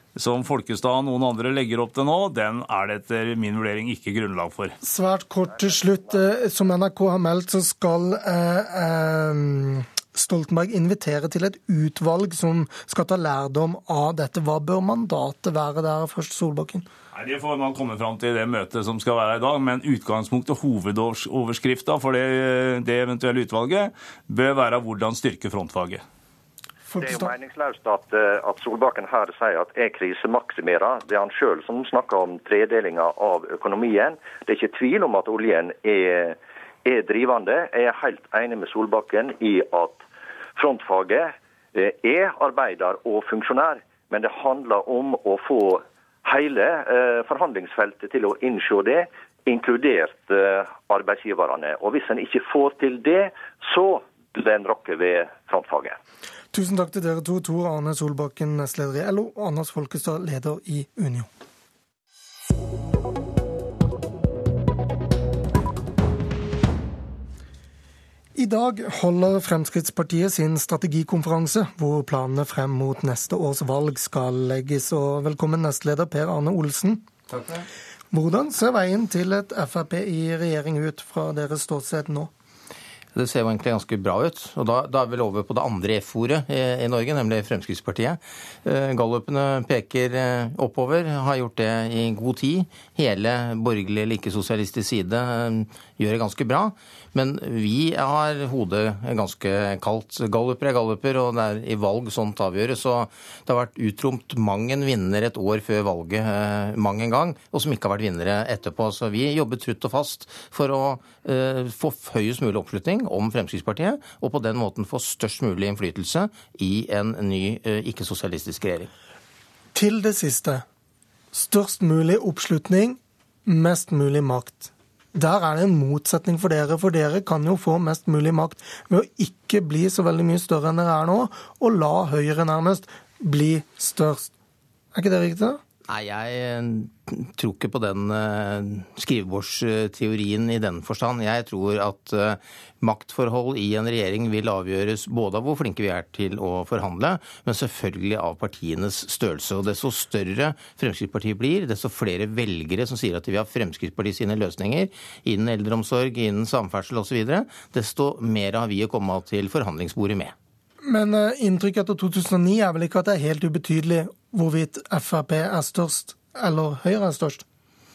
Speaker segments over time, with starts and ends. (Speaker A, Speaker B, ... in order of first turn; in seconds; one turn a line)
Speaker A: 0.2-4.8
Speaker B: 4.8-16.9
Speaker C: 5.6-5.9
Speaker A: 17.1-26.0
Speaker B: 26.9-27.3
Speaker C: 27.0-40.0
Speaker C: 40.6-56.0
Speaker B: 56.5-61.3
Speaker B: 68.4-77.0
Speaker B: 78.1-82.3
Speaker D: 83.2-118.9
Speaker B: 119.7-120.6
Speaker B: 121.3-134.3
Speaker B: 134.9-135.6
Speaker D: 135.9-160.3
Speaker B: 160.8-167.4